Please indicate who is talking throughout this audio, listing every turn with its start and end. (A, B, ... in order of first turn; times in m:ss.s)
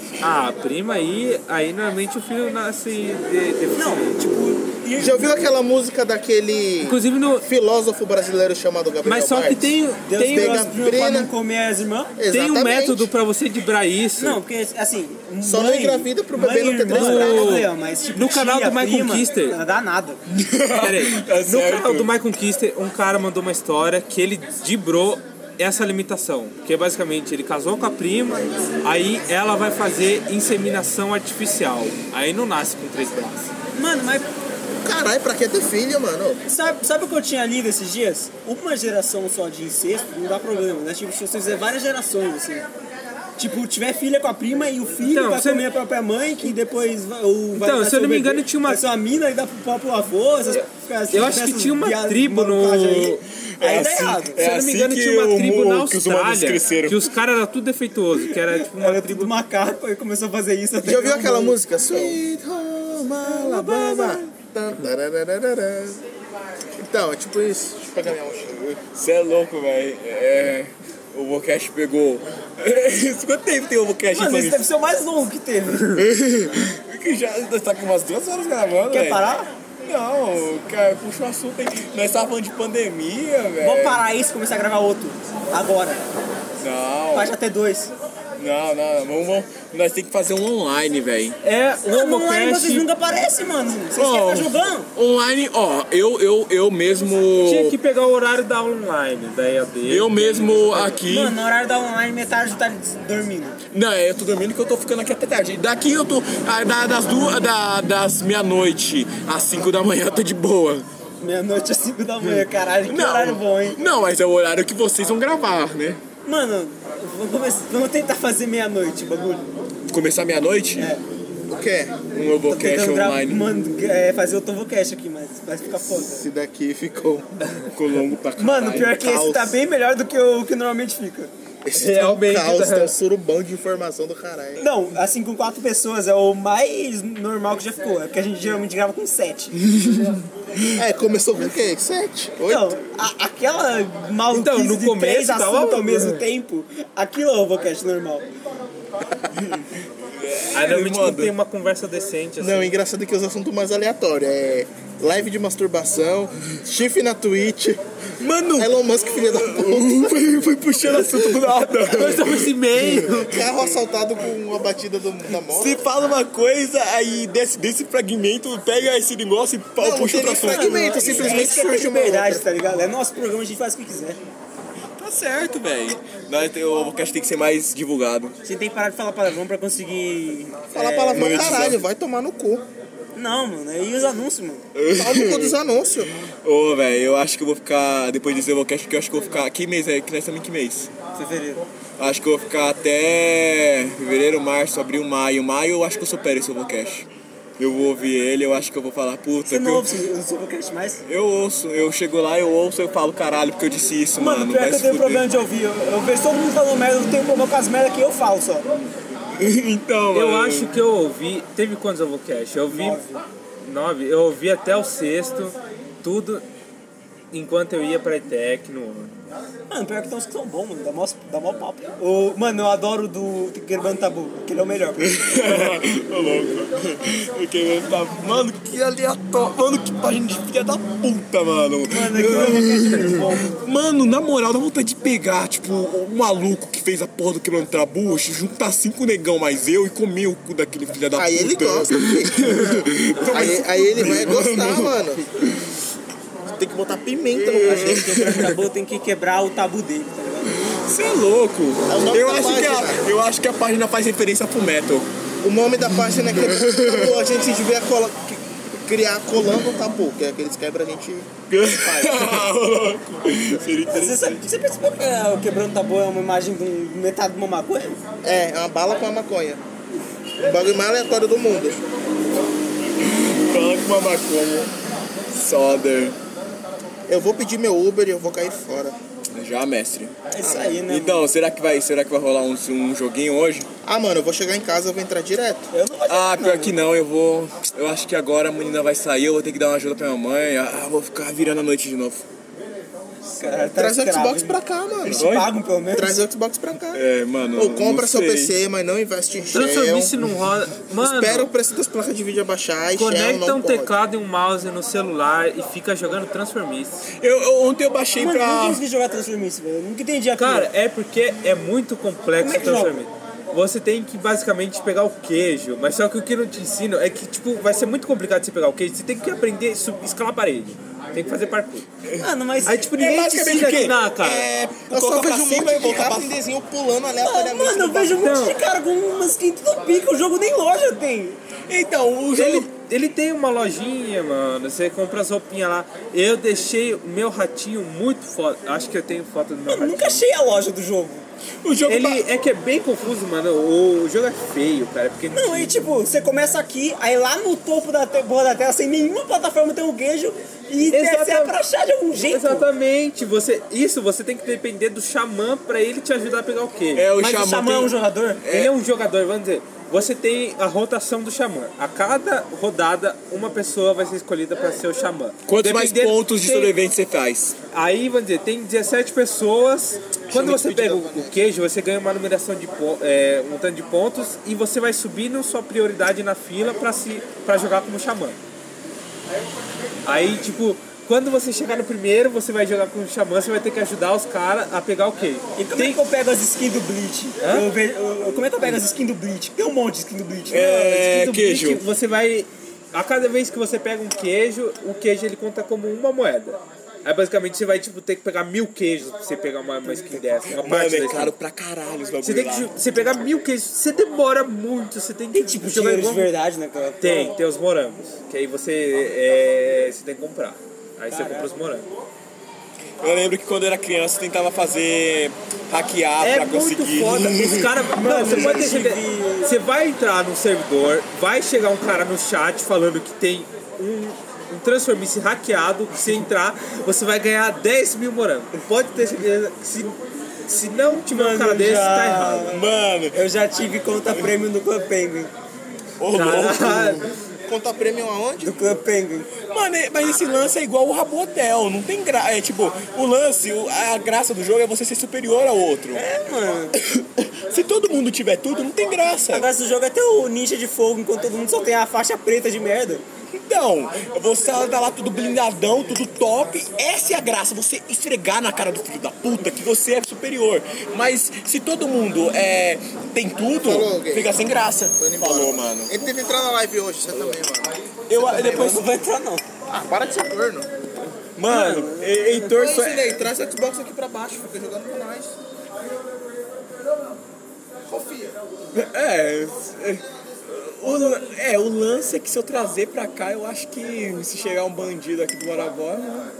0:00.2-0:04.2 A
0:03.7-0:05.4 B
0:05.0-0:11.3 C
0:06.8-0:07.5 A
0:09.0-0:10.6 A
0:10.1-0:12.1 B
0:12.2-0:13.1 C
0:12.3-0:14.4 A
0:14.2-0:20.2 B
0:15.4-0:17.6 C
0:16.9-0:19.6 A
0:20.3-0:22.1 D
0:20.8-0:33.5 A
0:33.7-0:34.3 B
0:34.8-0:36.4 C
0:36.5-0:42.7 B
0:43.4-0:54.4 B
0:45.0-0:45.6 A
0:47.5-0:48.8 A
0:50.5-0:53.2 A
0:53.6-0:57.1 D
0:54.4-0:59.3 A
0:58.7-1:02.0 B
1:00.8-1:06.0 C
1:03.3-1:04.2 B
1:06.8-1:08.6 C
1:08.7-1:14.7 D
1:14.1-1:16.0 B
1:16.0-1:19.2 D
1:18.9-1:19.5 B
1:19.8-1:24.0 D
1:23.6-1:26.1 B
1:26.6-1:27.3 D
1:27.1-1:27.9 B
1:28.4-1:31.4 D
1:31.4-1:32.8 A
1:31.9-1:34.9 B
1:33.9-1:37.8 D
1:37.4-1:41.0 A
1:39.9-1:41.4 D
1:41.0-1:43.6 B
1:43.7-1:50.8 D
1:51.2-1:53.8 B
1:52.3-1:56.0 D
1:56.2-1:59.4 B
1:59.9-2:00.9 D
2:00.8-2:01.0 B
2:01.5-2:02.0 C
2:02.1-2:03.4 D
2:02.5-2:06.2 B
2:05.7-2:07.3 C
2:07.7-2:09.2 D
2:08.4-2:11.3 B
2:09.0-2:09.5 C
2:11.6-2:14.6 C
2:11.7-2:12.9 A
2:14.6-2:19.6 B
2:19.8-2:20.1 D
2:20.7-2:22.8 C
2:22.5-2:28.2 B
2:24.3-2:26.2 A
2:29.4-2:31.3 D
2:30.5-2:32.8 A
2:32.4-2:37.8 C
2:38.2-2:43.3 D
2:38.6-2:41.7 C
2:41.9-2:43.4 A
2:43.2-2:45.8 C
2:45.5-2:51.5 D
2:49.8-2:52.4 C
2:50.3-2:54.2 B
2:55.0-2:58.3 D
2:58.4-3:01.7 B
3:00.7-3:02.6 C
3:01.1-3:01.8 D
3:03.1-3:04.6 B
3:04.7-3:05.6 D
3:04.9-3:06.1 C
3:06.4-3:10.9 D
3:11.1-3:11.6 B
3:12.0-3:17.1 D
3:17.6-3:19.9 D
3:19.4-3:21.0 B
3:21.0-3:25.3 D
3:24.2-3:28.6 B
3:29.4-3:30.7 D
3:30.1-3:33.0 A
3:32.7-3:33.2 B
3:33.6-3:36.4 A
3:37.3-3:39.1 A
3:39.7-3:45.8 B
3:45.0-4:05.6 D
3:51.9-3:53.6 B
4:01.1-4:05.3 C
4:03.2-4:04.2 B
4:06.4-4:08.1 C
4:07.3-4:10.6 B
4:07.7-4:08.5 D
4:10.6-4:15.1 D
4:11.9-4:13.0 C
4:15.4-4:22.4 C
4:16.2-4:17.2 D
4:21.5-4:24.4 D
4:23.9-4:28.0 B
4:28.2-4:29.6 C
4:30.4-4:31.8 C
4:33.0-4:34.7 D
4:35.3-4:36.2 D
4:37.1-4:39.0 C
4:39.3-4:40.1 D
4:40.3-4:41.2 B
4:40.4-4:40.8 C
4:40.9-4:43.7 D
4:43.8-4:45.7 C
4:45.7-4:46.8 B
4:46.1-4:52.2 D
4:53.2-4:56.2 B
4:53.4-4:55.2 C
4:55.2-4:55.5 D
4:55.9-4:57.0 C
4:56.9-4:58.6 D
4:57.6-5:00.1 C
4:59.5-5:01.5 A
5:01.0-5:03.9 C
5:03.0-5:07.1 A
5:07.2-5:08.8 D
5:08.2-5:10.7 B
5:10.4-5:21.8 A
5:12.4-5:13.0 B
5:22.2-5:23.0 B
5:22.6-5:24.5 A
5:22.9-5:26.3 D
5:23.5-5:23.8 B
5:24.9-5:28.4 C
5:27.2-5:31.4 B
5:28.2-5:28.6 A
5:31.7-5:32.7 D
5:32.4-5:40.2 A
5:39.7-5:41.2 B
5:41.6-5:42.3 D
5:41.8-5:45.7 A
5:45.3-5:52.7 B
5:50.9-5:51.6 A
5:52.1-5:57.0 A
5:56.9-5:58.7 D
5:57.2-5:58.4 B
5:58.5-6:06.7 A
6:05.4-6:07.5 D
6:07.7-6:18.4 A
6:10.3-6:11.4 C
6:20.0-6:26.0 A
6:25.6-6:30.8 B
6:27.4-6:27.7 A
6:30.5-6:31.8 D
6:30.7-6:41.3 A
6:39.8-6:40.4 B
6:40.5-6:43.4 D
6:42.2-6:46.3 A
6:45.3-6:47.4 B
6:47.0-6:51.9 A
6:51.1-6:51.5 B
6:53.0-6:57.8 D
6:56.2-7:10.0 A
6:57.9-6:59.6 B
7:10.5-7:12.6 A
7:10.8-7:15.3 B
7:12.5-7:13.2 D
7:16.0-7:17.1 D
7:16.1-7:17.1 A
7:17.5-7:18.8 C
7:18.4-7:19.3 B
7:19.5-7:26.0 D
7:25.9-7:26.8 B
7:26.8-7:29.5 D
7:29.3-7:33.0 B
7:33.3-7:46.0 D
7:43.6-7:44.3 C
7:45.0-7:47.8 C
7:48.1-7:48.9 D
7:48.2-7:49.4 B
7:49.7-7:50.7 C
7:51.3-7:53.2 D
7:51.5-7:52.5 B
7:52.5-7:55.4 C
7:57.9-7:58.4 C
7:58.7-8:06.3 D